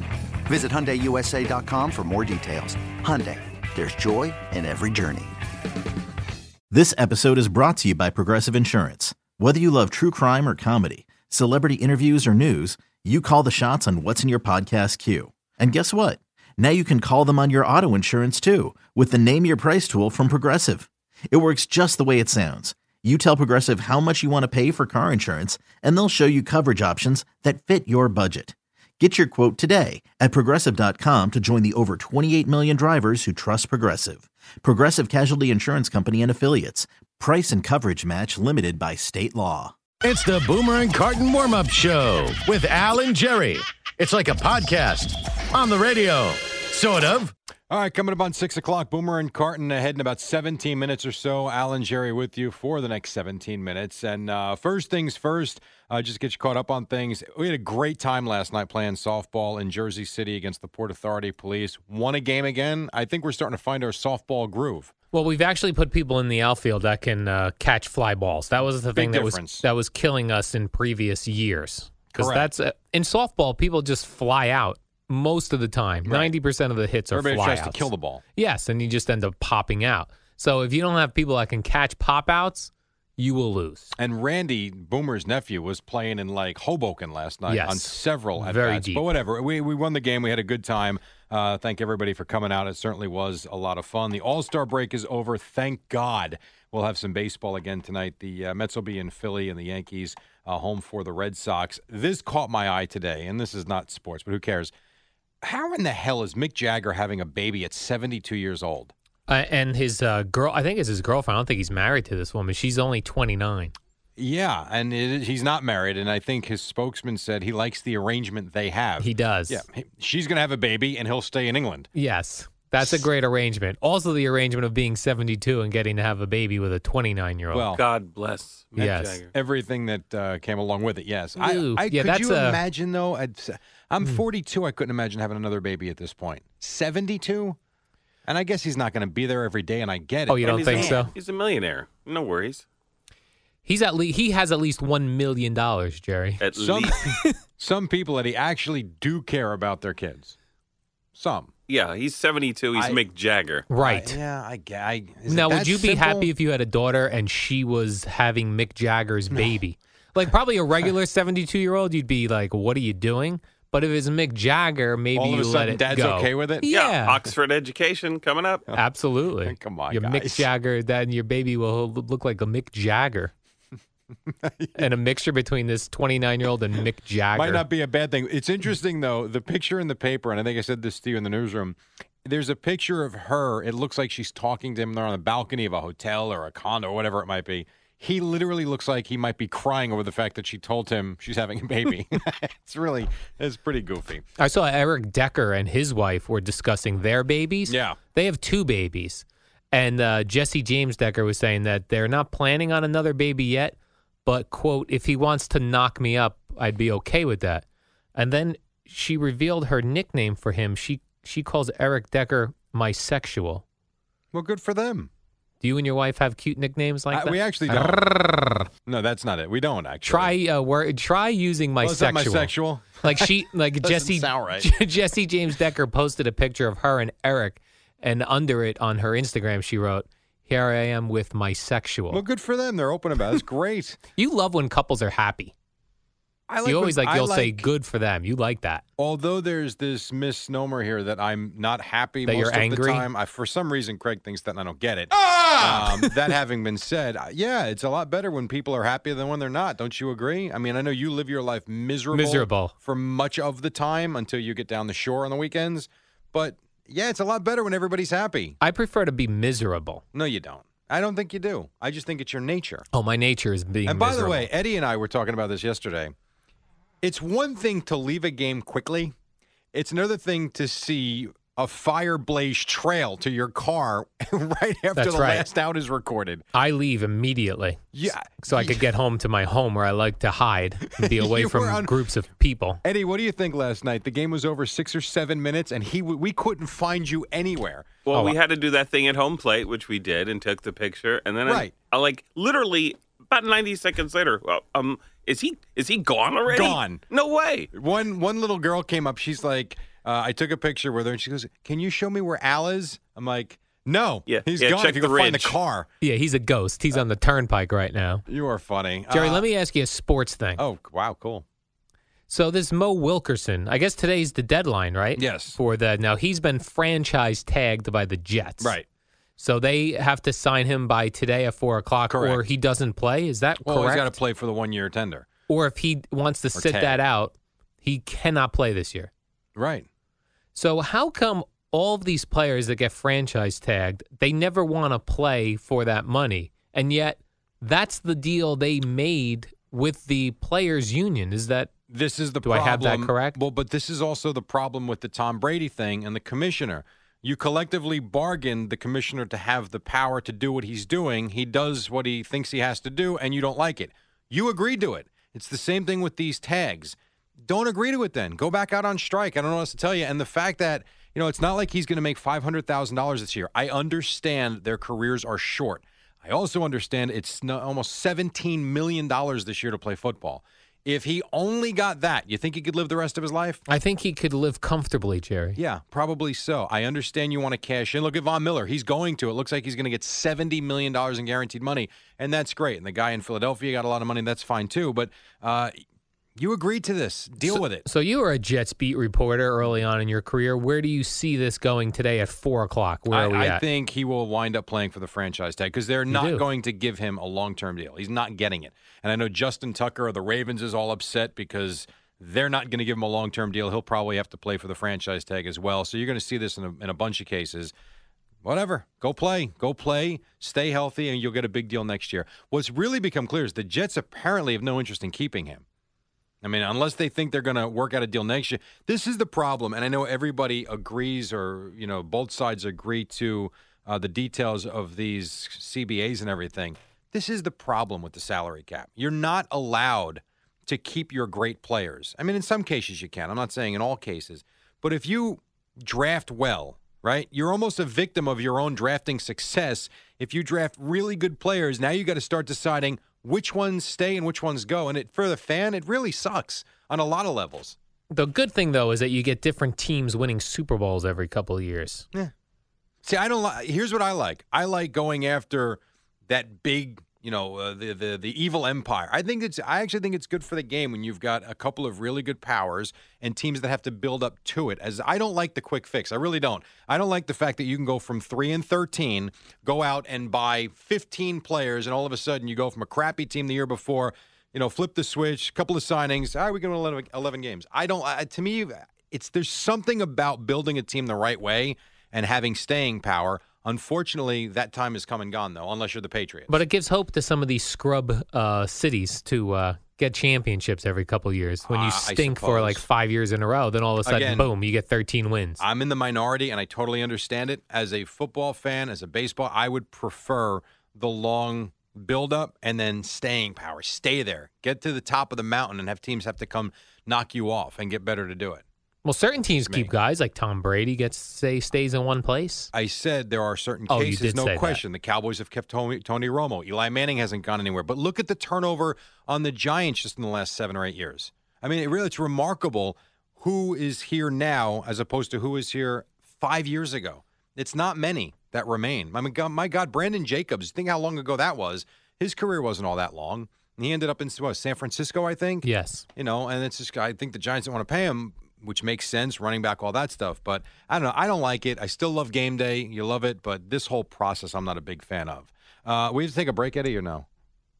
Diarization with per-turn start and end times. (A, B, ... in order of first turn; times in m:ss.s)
0:00.5-0:05.3 A
0:06.7-0:39.7 B
0:40.0-0:47.3 C
0:47.7-1:04.9 D
1:05.1-1:23.9 E
1:09.0-1:09.7 D
1:12.2-1:12.5 D
1:17.1-1:18.2 D
1:24.0-1:44.7 D
1:27.5-1:29.1 E
1:45.4-1:48.9 D
1:49.3-1:53.7 E
1:54.2-2:01.9 D
1:59.0-1:59.6 E
2:01.9-2:07.7 E
2:02.8-2:03.1 D
2:07.5-2:07.8 D
2:07.7-2:09.3 F
2:08.8-2:09.2 E
2:09.3-2:17.6 D
2:11.4-2:12.6 E
2:18.3-2:21.1 D
2:20.3-2:21.1 E
2:20.4-2:22.6 F
2:23.6-2:27.3 E
2:26.4-2:27.0 F
2:26.6-2:30.4 D
2:31.2-2:31.5 D
2:31.7-2:33.7 F
2:32.8-2:33.0 D
2:33.7-2:34.2 E
2:33.8-2:36.3 D
2:35.3-2:47.3 E
2:39.3-2:39.6 D
2:45.2-2:46.7 D
2:46.7-2:48.7 F
2:48.7-2:53.3 E
2:49.5-2:50.5 D
2:54.3-2:54.9 D
2:54.8-2:57.6 E
2:57.4-3:14.2 D
3:14.4-3:33.6 E
3:17.7-3:18.0 D
3:34.3-3:35.1 D
3:35.6-3:38.6 E
3:37.1-3:38.2 D
3:38.9-3:40.4 D
3:40.1-3:52.2 E
3:41.8-3:44.7 D
3:52.1-3:54.0 D
3:54.2-3:55.5 E
3:56.5-3:57.7 D
3:56.6-3:58.8 E
3:59.0-4:18.6 D
4:02.2-4:03.1 E
4:05.6-4:06.1 E
4:12.1-4:12.7 E
4:18.6-4:20.0 E
4:20.1-4:22.8 D
4:22.9-4:24.5 E
4:23.9-4:26.1 D
4:27.0-4:29.1 D
4:29.7-4:36.4 D
4:35.0-4:35.5 E
4:36.5-4:42.8 E
4:37.9-4:38.9 D
4:41.0-4:42.0 D
4:42.8-4:48.0 D
4:48.0-4:57.7 F
4:51.5-4:51.7 D
4:56.5-4:57.0 D
4:57.7-5:05.9 D
5:04.3-5:05.6 F
5:06.0-5:08.2 E
5:08.3-5:09.5 D
5:09.1-5:10.6 E
5:10.6-5:11.4 D
5:12.3-5:18.8 E
5:15.2-5:15.6 D
5:19.4-5:24.2 E
5:22.1-5:22.4 D
5:23.7-5:25.3 D
5:25.5-5:29.1 E
5:26.5-5:27.0 D
5:29.6-5:29.9 D
5:30.6-5:41.7 E
5:41.9-6:13.6 D
5:42.4-5:43.4 E
6:13.7-6:15.6 E
6:15.6-6:25.8 D
6:26.4-6:27.8 D
6:27.4-6:33.6 E
6:33.1-6:47.7 D
6:36.1-6:36.4 E
6:48.4-6:55.6 D
6:56.4-7:27.8 D
7:28.1-7:32.1 E
7:33.0-8:06.6 D
8:06.5-8:15.6 E
8:11.7-8:12.8 D
8:14.0-8:14.5 D
8:15.6-8:28.6 D
8:29.0-8:32.7 E
8:29.7-8:29.9 D
8:32.7-9:07.3 D
8:33.9-8:34.8 E
8:55.6-8:56.1 E